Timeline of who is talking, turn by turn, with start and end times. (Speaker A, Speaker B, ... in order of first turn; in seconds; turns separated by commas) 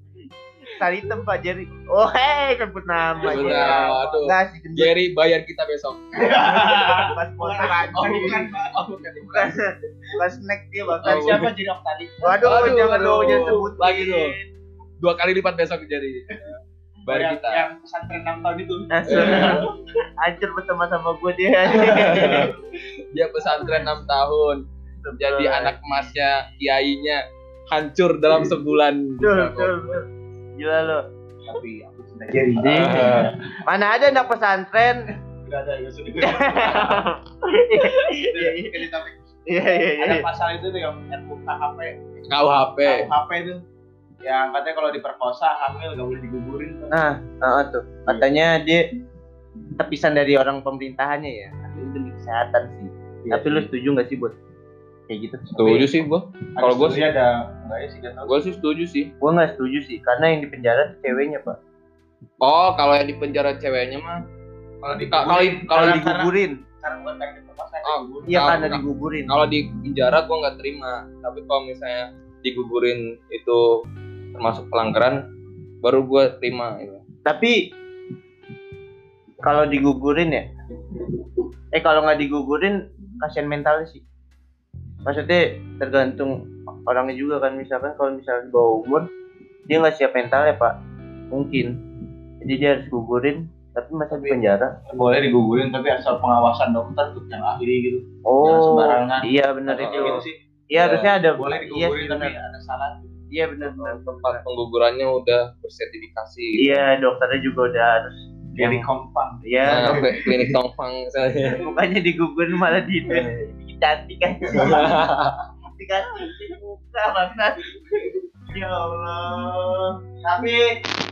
Speaker A: 0.8-4.9, Speaker B: 3.2-4.1, Speaker C: 3.2-6.8, Speaker B: 6.1-9.6, Speaker A: 6.7-8.5, Speaker C: 8.0-8.4, Speaker A: 9.3-11.4, Speaker C: 11.0-11.5, Speaker B: 11.0-12.9, Speaker A: 12.2-14.4, Speaker C: 12.4-14.3, Speaker C: 15.0-16.4, Speaker C: 17.1-17.6, Speaker B: 17.1-19.7, Speaker A: 18.9-19.7, Speaker C: 19.1-19.7, Speaker A: 20.2-22.5, Speaker C: 21.9-22.5, Speaker B: 22.1-22.4, Speaker C: 23.1-24.6, Speaker A: 25.0-25.8, Speaker C: 25.2-30.0, Speaker A: 29.2-30.1, Speaker A: 30.6-31.0, Speaker B: 31.4-33.3, Speaker A: 32.6-33.1, Speaker C: 32.7-33.3, Speaker A: 33.6-35.0, Speaker B: 35.4-37.0, Speaker A: 36.2-38.7, Speaker B: 38.1-39.1, Speaker A: 39.5-40.2, Speaker B: 40.0-42.0, Speaker C: 42.3-43.1, Speaker B: 42.8-43.6, Speaker B: 44.2-46.9, Speaker A: 46.9-48.8, Speaker A: 49.8-54.4, Speaker B: 53.2-53.7, Speaker A: 55.1-56.0, Speaker C: 55.6-57.0, Speaker B: 56.5-58.5, Speaker C: 58.3-59.1, Speaker A: 59.2-61.6, Speaker C: 62.4-64.2, Speaker B: 64.8-68.7, Speaker C: 65.1-66.1, Speaker A: 65.7-66.6, Speaker C: 67.8-73.8, Speaker A: 68.3-69.3, Speaker C: 74.3-75.2, Speaker C: 75.8-77.0, Speaker A: 77.2-77.6, Speaker A: 79.4-80.5, Speaker A: 81.7-84.0, Speaker A: 85.0-89.1, Speaker A: 89.7-90.7, Speaker A: 91.3-91.7, Speaker A: 92.4-94.8, Speaker B: 94.1-100.4, Speaker A: 98.2-102.3, Speaker C: 99.7-100.2, Speaker C: 100.8-101.1, Speaker B: 101.4-103.2, Speaker A: 103.3-104.4, Speaker C: 103.6-106.8, Speaker A: 106.6-108.8, Speaker B: 108.5-110.4, Speaker A: 109.4-110.1, Speaker C: 109.6-111.6, Speaker A: 111.4-115.0, Speaker C: 113.1-113.3, Speaker C: 114.5-115.4, Speaker A: 115.7-120.6